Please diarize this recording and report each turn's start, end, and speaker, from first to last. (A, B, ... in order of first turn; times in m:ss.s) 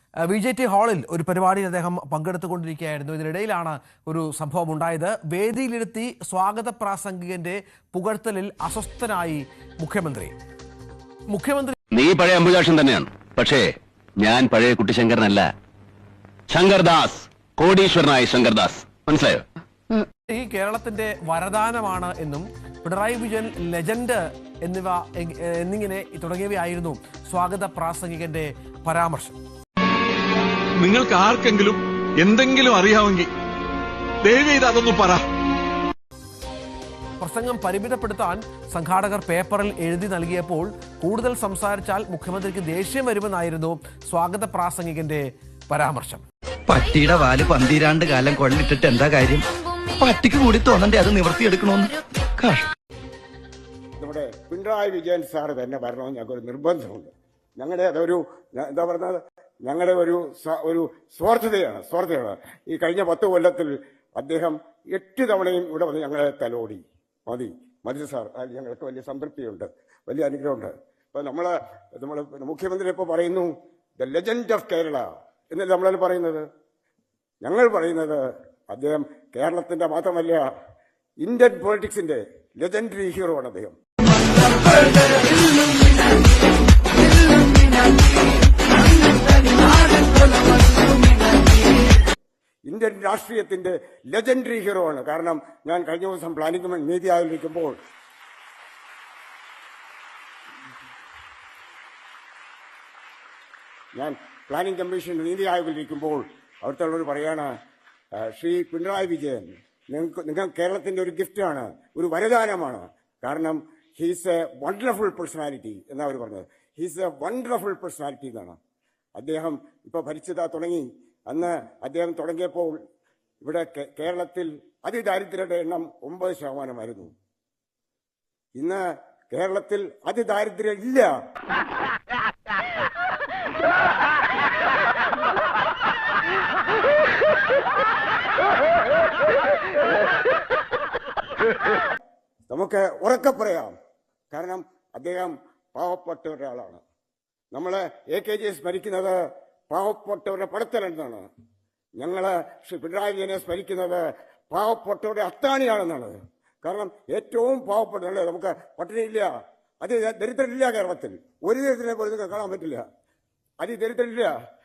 0:00.3-0:10.3 A
0:11.3-0:11.8 A
0:11.9-0:13.7 B
0:14.2-0:15.5 B
0:16.5-0:19.4 B
0:20.3-0:29.4 A
0:30.8-0:33.3 C
0:34.2-0:35.3 C
0:37.2-0:46.2 A
0:46.7-0:49.4 D
0:50.0-0:52.7 D
0:54.0-1:16.4 E
1:17.4-1:20.5 E
1:21.2-1:23.8 E
1:32.7-1:37.8 E
1:44.0-1:47.5 E
1:48.2-1:58.6 E
1:59.2-2:02.8 E
2:03.4-2:07.1 E
2:08.6-2:11.1 E
2:22.5-2:23.7 E
2:24.3-2:26.8 E
2:27.5-2:29.2 E
2:29.7-2:31.3 E
2:32.0-2:42.8 E
2:43.6-2:44.3 E